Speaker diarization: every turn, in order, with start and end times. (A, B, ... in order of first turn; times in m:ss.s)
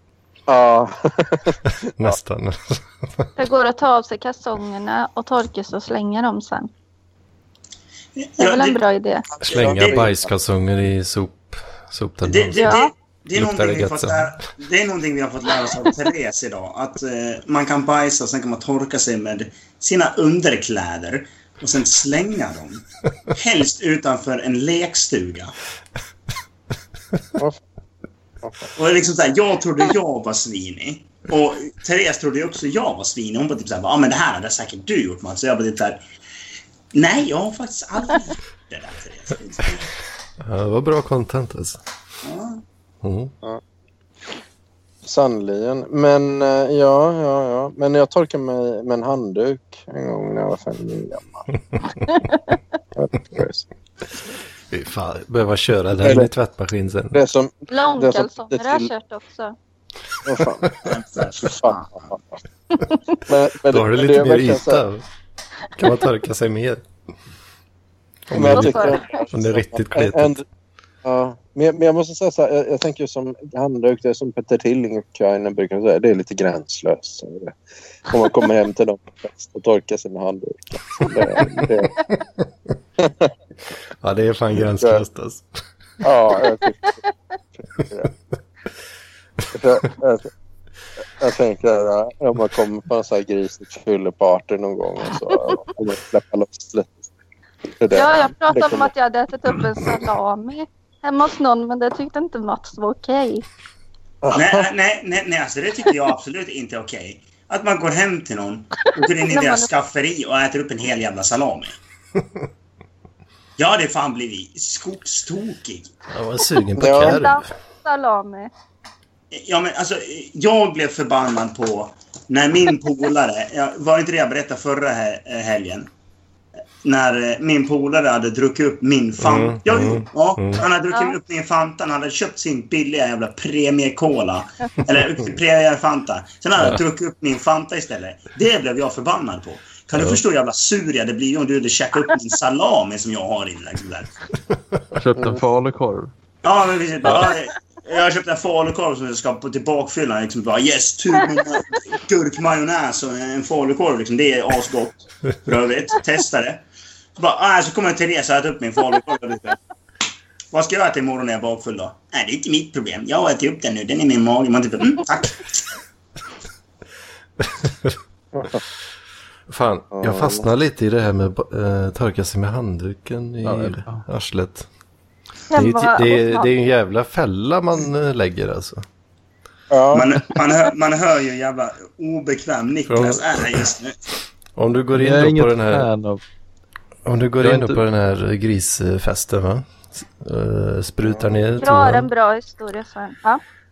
0:00.5-0:02.2 A
0:02.0-0:03.3 B
0:03.4-0:06.7 C
0:08.2-0:08.8 D
0:08.4-0:09.3 C
0:09.4-0:10.3 A
0:09.4-0:12.7 B
0:09.4-0:10.0 D
0:12.3-0:25.5 D
0:12.6-0:12.9 C
0:13.4-0:14.3 B
0:28.4-0:28.7 A
0:28.8-0:36.0 D
0:36.9-0:39.9 D
0:40.4-0:41.8 B
0:42.2-0:42.6 D
0:43.0-0:43.3 B
0:45.0-0:51.4 A
0:52.1-0:52.6 C
0:53.0-0:53.7 A
0:54.7-0:57.2 B
0:56.0-0:56.3 A
0:57.1-0:58.9 A
0:57.7-0:59.6 C
1:00.2-1:00.8 A
1:00.8-1:02.1 D
1:01.4-1:02.4 A
1:03.3-1:04.9 A
1:03.7-1:05.0 B
1:05.8-1:06.8 B
1:08.3-1:10.4 B
1:08.3-1:10.4 A
1:08.4-1:09.2 C
1:11.0-1:17.6 A
1:18.1-1:21.9 A
1:23.0-1:23.3 A
1:24.0-1:25.5 B
1:24.8-1:25.0 A
1:26.0-1:26.9 A
1:26.7-1:27.1 C
1:27.8-1:28.1 A
1:29.5-1:30.3 A
1:31.2-1:37.0 A
1:35.3-1:35.6 C
1:37.8-1:38.9 A
1:37.9-1:43.4 C
1:44.2-1:44.7 A
1:44.3-1:51.8 D
1:49.3-1:49.7 C
1:53.6-1:55.9 D
1:56.1-1:57.4 B
1:56.8-1:57.3 A
1:56.8-1:58.5 C
1:59.3-2:05.9 D
2:06.8-2:24.1 D
2:09.2-2:10.7 B
2:20.0-2:20.2 B
2:25.0-2:26.1 E
2:26.4-2:36.6 D
2:27.0-2:27.3 B
2:31.2-2:31.8 C
2:37.2-2:39.6 D
2:40.5-2:45.6 D
2:47.4-2:48.0 B
2:48.3-2:48.6 A
2:49.5-2:54.7 B
2:49.9-2:50.4 A
2:53.4-2:54.0 E
2:55.5-2:56.5 C
2:55.6-2:58.8 B
2:59.7-3:00.2 A
2:59.9-3:04.0 D
3:02.9-3:03.5 B
3:04.6-3:05.9 B
3:04.9-3:06.2 E
3:07.0-3:12.1 B
3:07.4-3:07.8 E
3:11.0-3:11.4 A
3:11.6-3:13.4 C